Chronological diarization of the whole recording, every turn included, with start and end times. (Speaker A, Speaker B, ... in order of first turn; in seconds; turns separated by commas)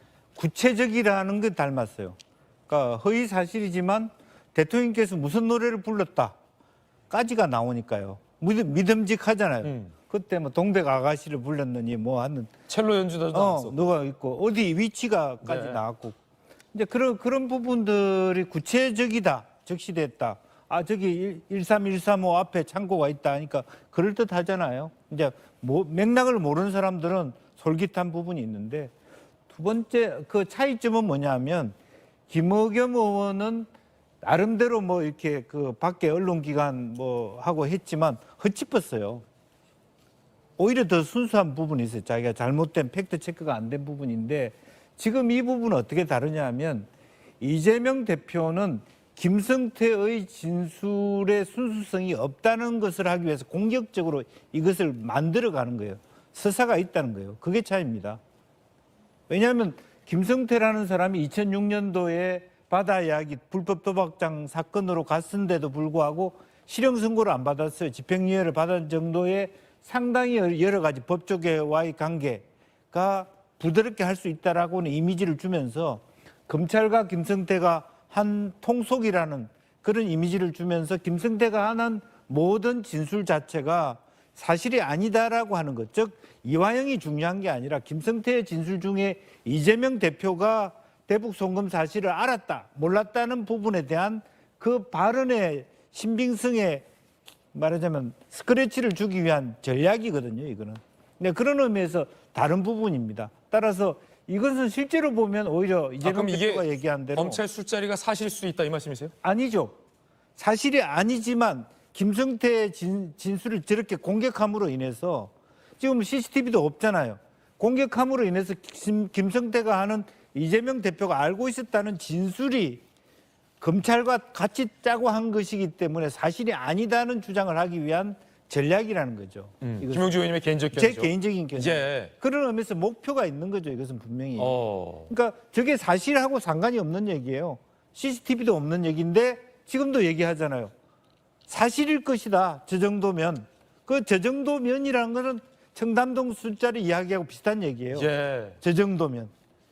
Speaker A: 0.4-2.1, Speaker A: 2.7-6.3, Speaker A: 7.1-12.5, Speaker B: 9.6-9.9, Speaker B: 12.7-13.8, Speaker A: 13.3-16.2, Speaker B: 15.4-15.8, Speaker A: 16.7-28.9, Speaker A: 29.5-31.7, Speaker A: 32.3-33.7, Speaker A: 34.2-39.2, Speaker A: 40.6-46.9, Speaker A: 47.4-58.2, Speaker A: 59.3-96.8, Speaker A: 97.5-107.4, Speaker B: 106.0-109.1, Speaker A: 109.2-109.8, Speaker A: 110.4-122.8, Speaker A: 123.6-130.1, Speaker B: 129.6-132.1, Speaker A: 130.7-140.7, Speaker B: 134.4-135.1, Speaker A: 141.5-148.1, Speaker B: 147.9-148.6, Speaker A: 148.6-149.3